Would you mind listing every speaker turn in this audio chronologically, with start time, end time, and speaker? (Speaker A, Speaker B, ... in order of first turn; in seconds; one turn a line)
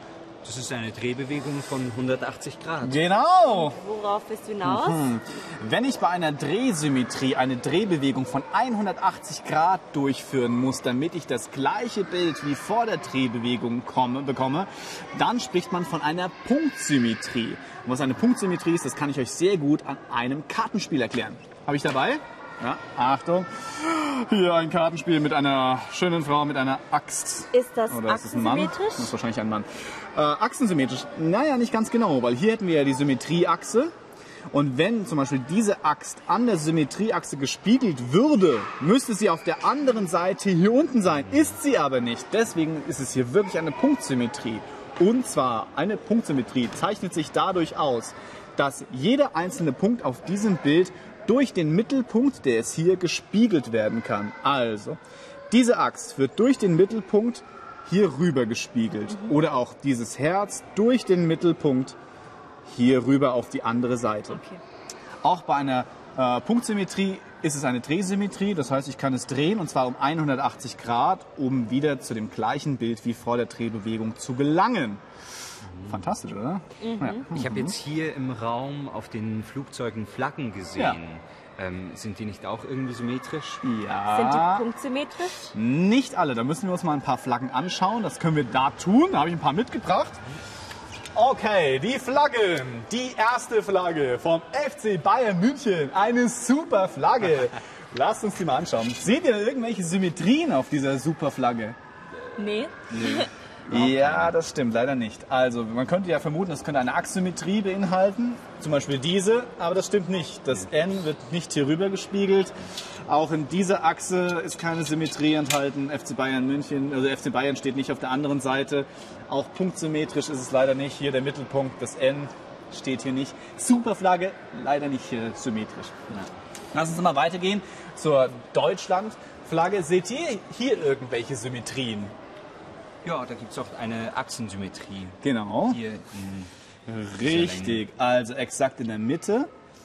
Speaker A: 0.4-3.0
Speaker B: 2.8-3.8
Speaker C: 3.5-5.1
Speaker B: 4.6-33.9
Speaker C: 27.5-29.1
Speaker B: 34.5-55.0
Speaker B: 55.5-62.0
Speaker C: 59.1-59.4
Speaker B: 62.7-64.4
Speaker C: 64.3-64.6
Speaker B: 65.2-75.0
Speaker A: 75.6-76.2
Speaker B: 75.9-77.8
Speaker C: 76.8-77.3
Speaker A: 77.3-83.6
Speaker B: 83.6-84.7
Speaker C: 84.1-85.5
Speaker B: 85.5-90.2
Speaker B: 91.1-101.8
Speaker C: 102.4-103.3
Speaker A: 102.9-104.3
Speaker B: 103.7-112.5
Speaker B: 113.1-126.0
Speaker B: 126.7-132.1
Speaker A: 133.0-136.5
Speaker B: 135.2-135.8
Speaker B: 136.9-139.5
Speaker A: 137.2-137.8